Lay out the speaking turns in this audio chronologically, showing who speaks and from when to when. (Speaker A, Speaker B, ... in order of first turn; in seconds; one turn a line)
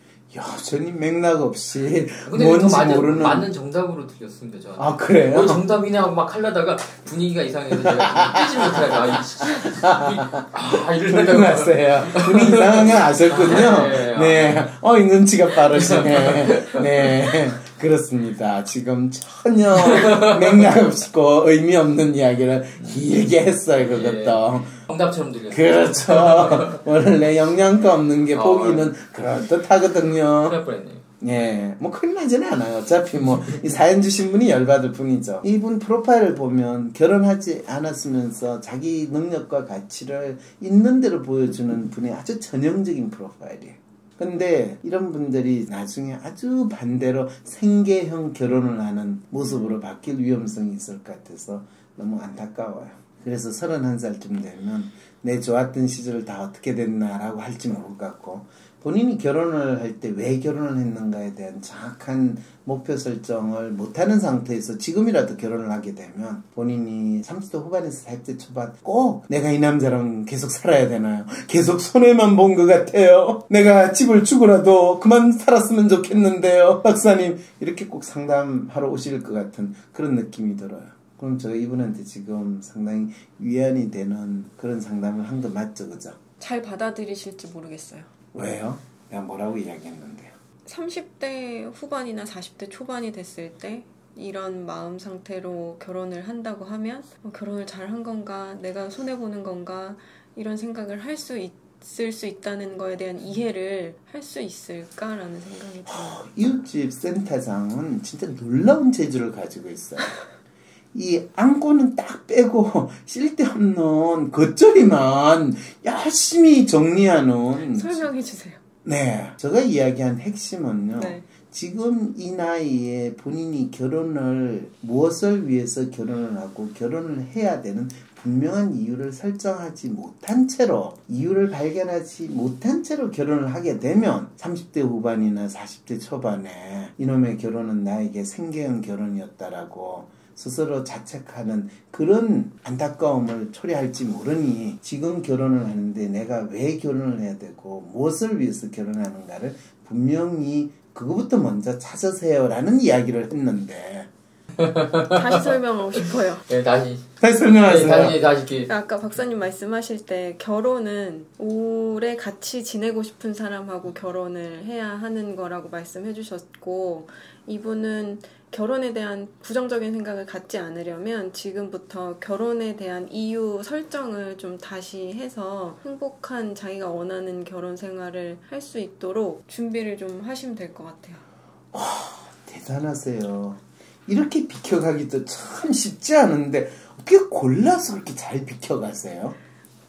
Speaker A: 0.3-3.5
Speaker B: 2.2-14.7
Speaker A: 4.8-5.7
Speaker A: 8.0-10.5
Speaker A: 11.1-24.8
Speaker B: 15.7-17.4
Speaker B: 19.8-20.6
Speaker B: 23.8-26.8
Speaker A: 25.5-30.6
Speaker B: 28.3-28.9
Speaker B: 30.2-31.1
Speaker A: 31.2-86.2
Speaker C: 86.4-88.1
Speaker A: 88.3-90.3
Speaker C: 90.7-106.5
Speaker A: 105.9-110.1
Speaker A: 110.9-118.1
Speaker C: 117.7-118.6
Speaker A: 118.8-154.1
Speaker C: 121.0-121.3
Speaker B: 154.6-157.1
Speaker C: 155.1-156.4
Speaker A: 157.2-158.2
Speaker B: 157.6-158.7
Speaker C: 158.7-181.2
Speaker A: 181.7-189.4